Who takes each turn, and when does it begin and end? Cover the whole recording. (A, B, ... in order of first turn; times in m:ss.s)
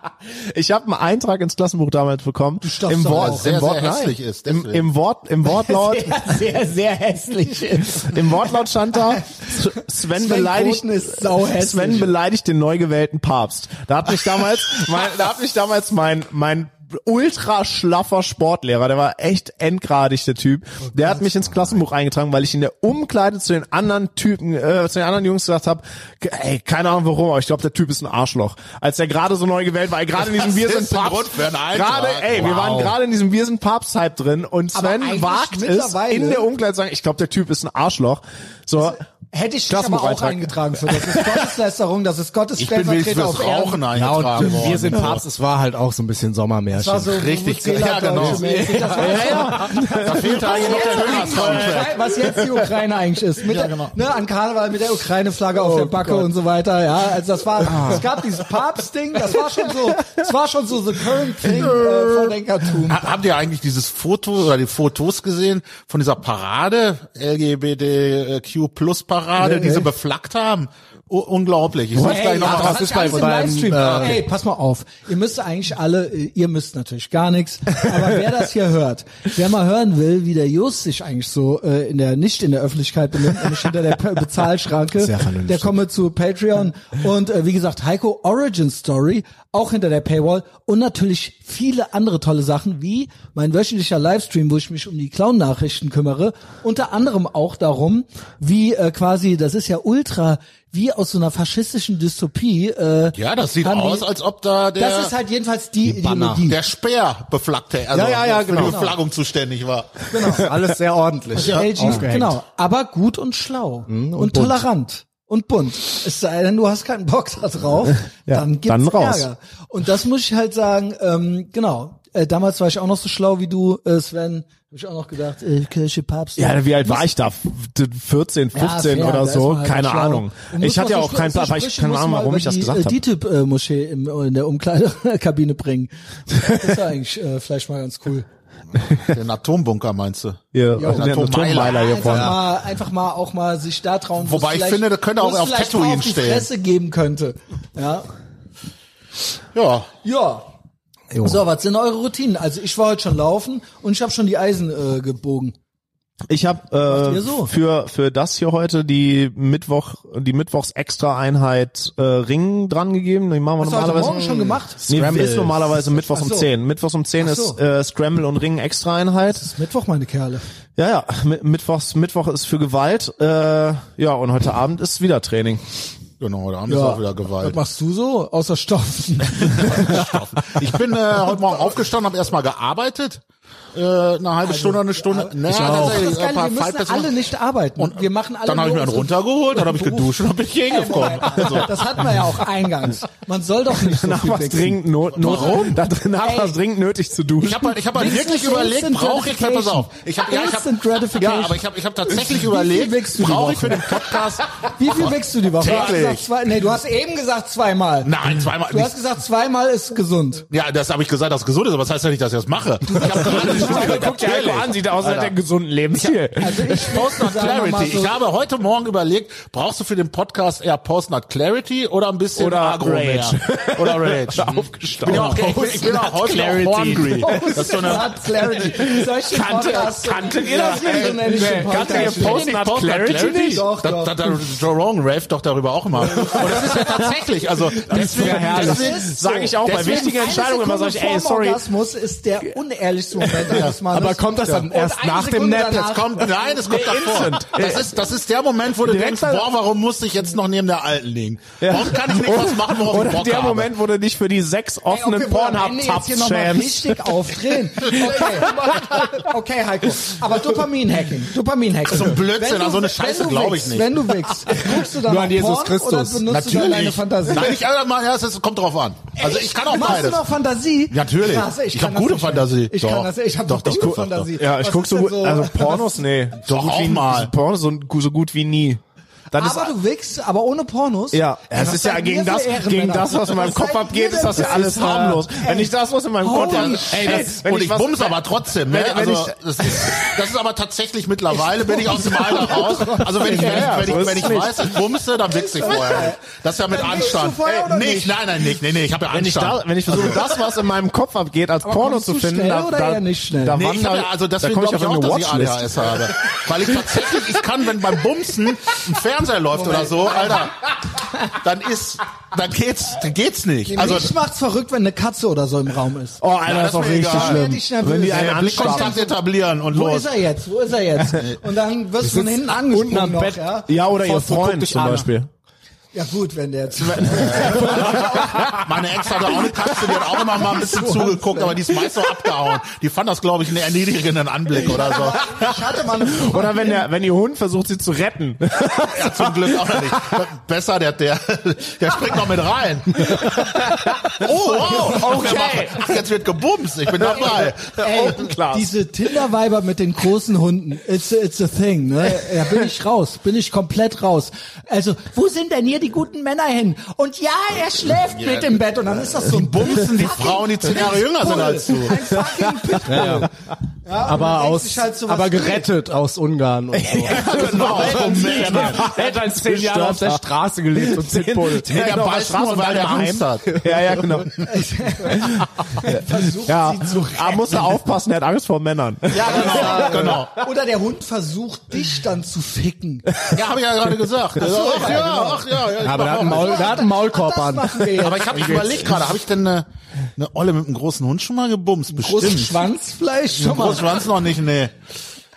0:00.3-0:06.4 A
0:02.6-0:03.6 B
0:03.1-0:04.9 C
0:05.4-0:08.3 B
0:08.0-0:39.0 A
0:10.1-0:12.1 B
0:30.2-0:32.9 C
0:32.3-0:32.9 D
0:34.7-0:36.5 B
0:38.8-0:43.8 B
0:39.7-0:41.5 A
0:42.6-0:45.2 C
0:44.0-0:47.2 D
0:46.8-1:03.0 B
0:47.1-0:52.0 C
0:48.1-0:50.1 D
0:48.9-0:52.2 A
0:53.5-0:54.0 C
0:55.6-0:56.2 D
0:57.6-0:58.1 D
1:01.4-1:13.2 C
1:09.4-1:09.9 B
1:12.0-1:14.2 D
1:12.0-1:44.1 B
1:13.8-1:14.2 C
1:25.0-1:25.8 D
1:43.2-1:45.1 C
1:44.8-1:46.6 B
1:45.8-1:46.4 D
1:46.5-1:50.1 C
1:47.9-1:48.8 D
1:48.6-1:49.0 B
1:50.1-1:50.5 B
1:50.3-1:52.4 D
1:51.4-1:52.0 C
1:51.4-2:07.1 B
1:53.9-1:54.6 D
1:58.3-1:59.3 A
2:06.4-2:13.0 A
2:08.5-2:18.3 B
2:18.9-2:22.2 C
2:20.5-2:22.4 A
2:20.8-2:21.1 B
2:21.6-2:28.1 B
2:24.2-2:26.5 C
2:29.6-2:29.9 C
2:30.0-2:30.5 B
2:31.2-2:35.6 B
2:36.3-2:44.3 A
2:36.9-2:37.5 B
2:43.6-2:46.5 B
2:44.0-2:45.4 D
2:44.9-2:49.4 A
2:47.2-2:47.6 B
2:49.3-2:50.4 B
2:50.8-2:55.6 A
2:56.2-2:57.6 C
2:56.7-3:00.1 B
2:59.4-3:03.2 C
3:03.7-3:07.2 C
3:04.4-3:10.1 B
3:05.5-3:06.0 D
3:07.8-3:11.7 C
3:10.7-3:16.6 B
3:13.8-3:17.8 A
3:15.1-3:15.8 C
3:17.4-3:26.3 C
3:17.9-3:30.5 B
3:28.0-3:29.0 C
3:30.5-3:35.4 C
3:33.0-3:36.9 A
3:33.3-3:34.1 B
3:35.9-3:48.1 C
3:36.4-3:38.2 B
3:42.4-3:53.6 A
3:45.1-3:46.1 B
3:47.1-3:52.6 B
3:50.5-4:00.1 C
3:51.3-3:51.9 D
3:53.2-3:54.2 B
3:56.3-3:57.1 A
3:56.4-3:56.8 B
3:57.9-3:58.9 D
3:57.9-4:01.6 A
3:58.0-4:06.3 B
4:03.2-4:03.6 A
4:03.5-4:03.8 C
4:03.9-4:06.0 D
4:05.7-4:13.7 C
4:06.6-4:07.9 A
4:08.8-4:09.5 A
4:11.6-4:18.7 A
4:14.9-4:27.5 B
4:21.9-4:24.0 C
4:24.7-4:26.2 D
4:26.3-4:30.2 C
4:29.2-4:36.1 B
4:30.9-4:34.3 C
4:33.7-4:38.8 A
4:36.4-4:37.3 C
4:39.3-4:39.7 A
4:39.3-4:47.3 B
4:41.1-4:50.2 A
4:46.3-5:00.4 C
4:51.5-4:54.6 B
4:53.2-4:54.7 A
4:55.2-4:58.3 B
4:59.1-5:06.4 A
5:01.6-5:03.6 B
5:03.5-5:14.2 C
5:09.6-5:10.4 B
5:13.7-5:16.2 B
5:16.2-5:19.0 A
5:16.4-5:17.6 C
5:17.0-5:19.1 B
5:18.1-5:20.1 C
5:19.7-5:23.7 B
5:21.1-5:21.4 C
5:22.0-5:25.1 D
5:23.7-5:25.3 A
5:25.9-5:28.1 B
5:27.0-5:35.3 C
5:27.3-5:28.5 A
5:30.1-5:31.6 B
5:34.6-5:36.9 B
5:35.3-5:39.9 A
5:38.6-5:48.1 C
5:43.2-5:46.0 A
5:47.0-5:48.7 A
5:47.7-6:03.3 B
5:58.0-6:02.1 C
6:02.9-6:03.3 D
6:03.8-6:05.7 B
6:04.0-6:11.7 D
6:06.7-6:10.2 A
6:07.1-6:08.9 C
6:08.2-6:08.6 B
6:10.8-6:14.5 A
6:11.6-6:14.3 C
6:14.4-6:17.8 B
6:15.1-6:20.2 A
6:19.1-6:23.1 B
6:19.2-6:20.3 C
6:23.3-6:26.9 C
6:24.4-6:28.8 B
6:25.8-6:28.6 D
6:28.0-6:32.6 C
6:31.9-6:34.1 B
6:33.4-6:34.8 C